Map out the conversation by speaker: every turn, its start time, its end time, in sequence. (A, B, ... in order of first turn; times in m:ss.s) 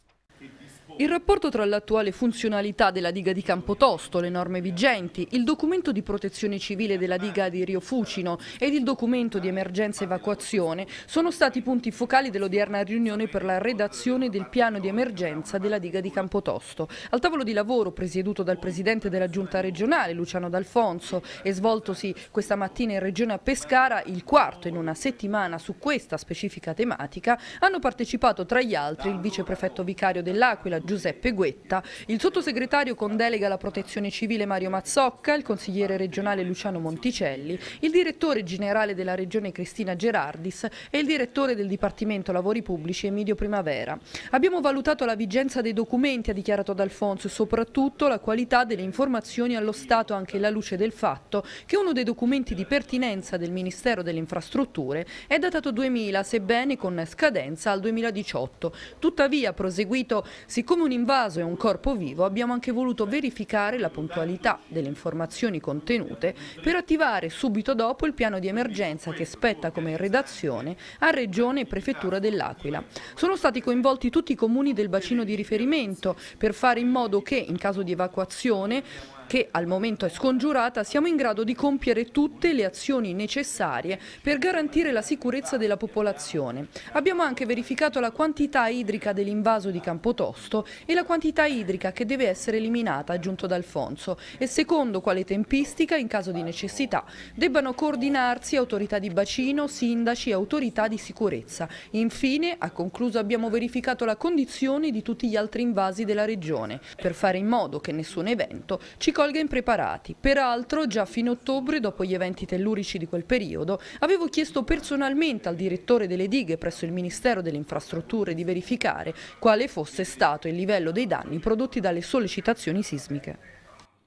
0:01.0-2:03.4 A